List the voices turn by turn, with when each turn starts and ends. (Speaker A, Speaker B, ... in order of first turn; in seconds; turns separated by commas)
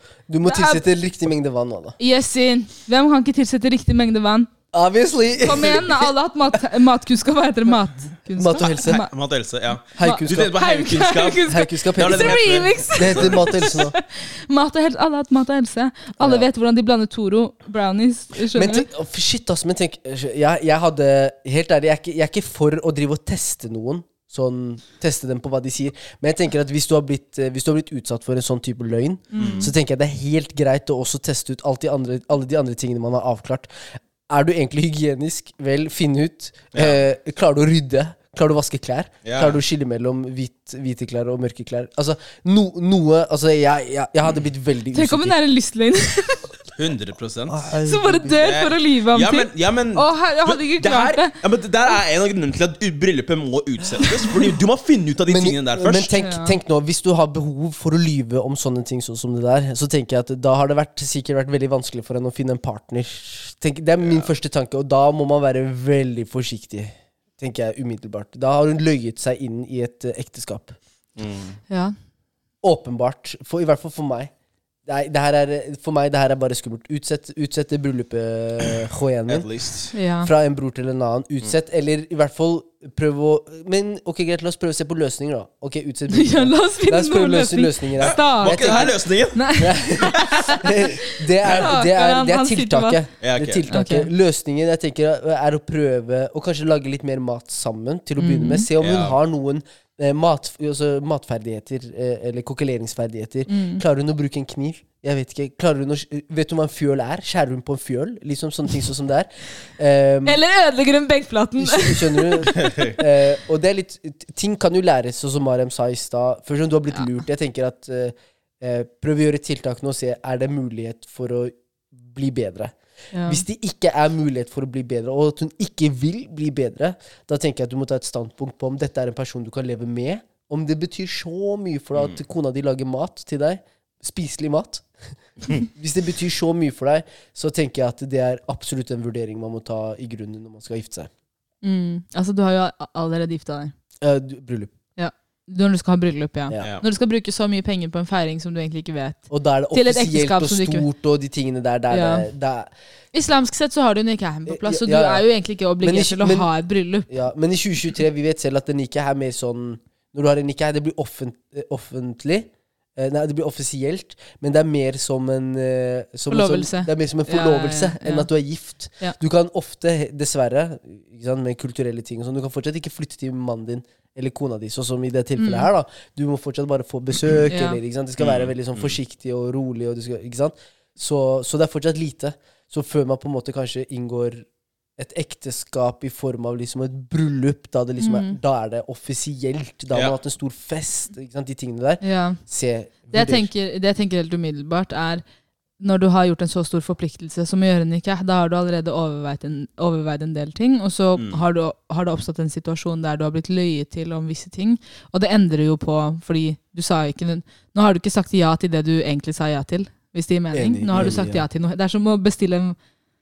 Speaker A: 0.3-2.0, Speaker B: 0.4-0.8, Speaker B: 2.0-4.5, Speaker A: 4.7-6.1, Speaker B: 5.4-9.1, Speaker A: 8.3-9.0, Speaker C: 8.8-13.8, Speaker A: 9.9-10.6, Speaker B: 10.0-18.9, Speaker A: 11.4-13.9, Speaker A: 16.2-16.5, Speaker A: 18.5-45.4, Speaker B: 29.3-29.6, Speaker C: 29.4-29.7, Speaker C: 36.7-37.0, Speaker C: 39.2-39.6, Speaker B: 44.9-46.5, Speaker C: 46.8-47.6, Speaker A: 47.5-48.5, Speaker B: 47.8-51.3, Speaker C: 48.4-56.1, Speaker A: 55.3-70.8, Speaker B: 56.2-56.5, Speaker C: 64.0-64.3, Speaker C: 71.2-71.6, Speaker A: 72.6-74.3, Speaker A: 74.8-79.5, Speaker C: 79.3-79.9, Speaker B: 79.9-80.3, Speaker A: 80.2-89.0, Speaker B: 86.1-93.0, Speaker C: 88.0-90.4, Speaker A: 89.5-110.4, Speaker C: 93.2-93.6, Speaker B: 93.7-94.1, Speaker B: 98.2-98.7, Speaker C: 98.8-99.2, Speaker B: 103.5-103.8, Speaker B: 110.2-112.8, Speaker A: 111.6-122.7, Speaker C: 112.5-113.0, Speaker B: 123.1-123.4, Speaker A: 123.3-134.9, Speaker A: 135.5-141.1, Speaker B: 141.6-143.7, Speaker A: 144.0-144.7, Speaker B: 144.9-150.9, Speaker C: 146.6-146.8, Speaker A: 149.3-152.7, Speaker B: 151.9-152.2, Speaker B: 153.1-157.1, Speaker A: 154.5-155.3, Speaker A: 155.8-156.5, Speaker A: 157.1-193.5, Speaker B: 166.3-168.3, Speaker B: 175.4-175.7, Speaker B: 177.5-177.8, Speaker C: 178.2-178.9, Speaker B: 188.0-188.4, Speaker B: 192.0-192.4, Speaker B: 193.1-195.2, Speaker B: 195.8-212.8, Speaker C: 201.2-201.4, Speaker A: 210.5-211.4